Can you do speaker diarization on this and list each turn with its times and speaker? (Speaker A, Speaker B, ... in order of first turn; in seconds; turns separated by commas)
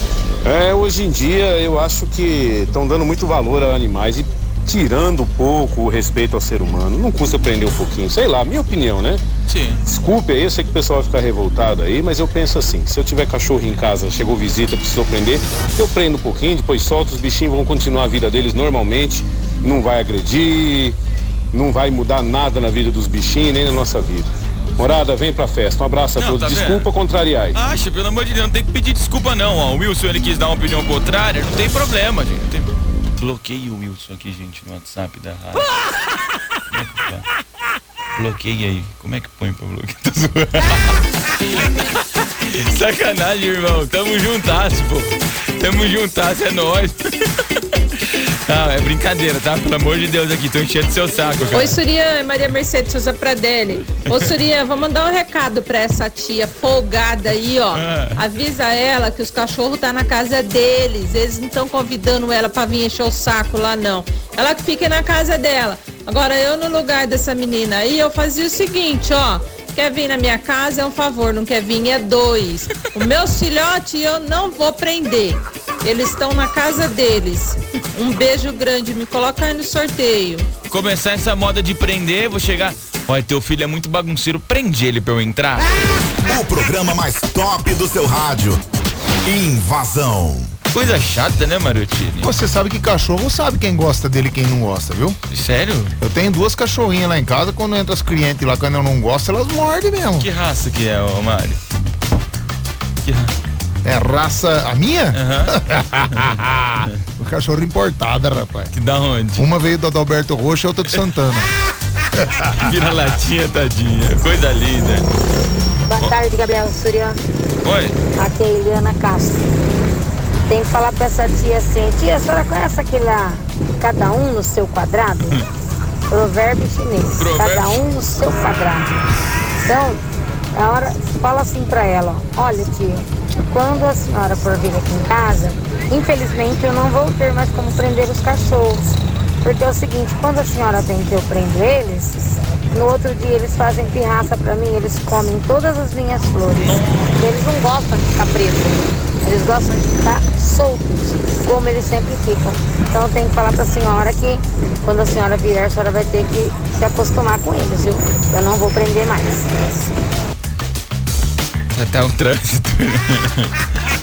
Speaker A: 0.4-9.2, Speaker B: 9.5-9.8, Speaker A: 9.9-21.0, Speaker A: 21.5-27.6, Speaker B: 26.2-26.9, Speaker B: 27.5-35.7, Speaker B: 36.7-37.3, Speaker B: 38.2-41.0, Speaker B: 41.5-47.0, Speaker B: 48.0-51.8, Speaker C: 51.5-80.5, Speaker B: 54.0-54.3, Speaker B: 57.7-58.2, Speaker B: 80.7-85.7, Speaker D: 86.1-88.6, Speaker D: 89.2-90.5, Speaker B: 90.7-92.3, Speaker E: 92.2-95.2, Speaker B: 95.3-95.9, Speaker E: 96.0-100.3, Speaker B: 100.2-101.6, Speaker B: 103.0-103.3, Speaker E: 103.8-108.7, Speaker B: 105.1-106.9, Speaker B: 108.7-109.5, Speaker E: 109.4-111.5, Speaker B: 112.6-115.1, Speaker F: 115.9-117.2, Speaker B: 117.6-118.0, Speaker F: 118.2-119.4, Speaker F: 120.5-125.3, Speaker F: 126.1-128.9, Speaker B: 127.2-127.9, Speaker F: 129.7-130.0, Speaker F: 130.6-138.8, Speaker F: 139.4-159.9, Speaker B: 161.8-163.5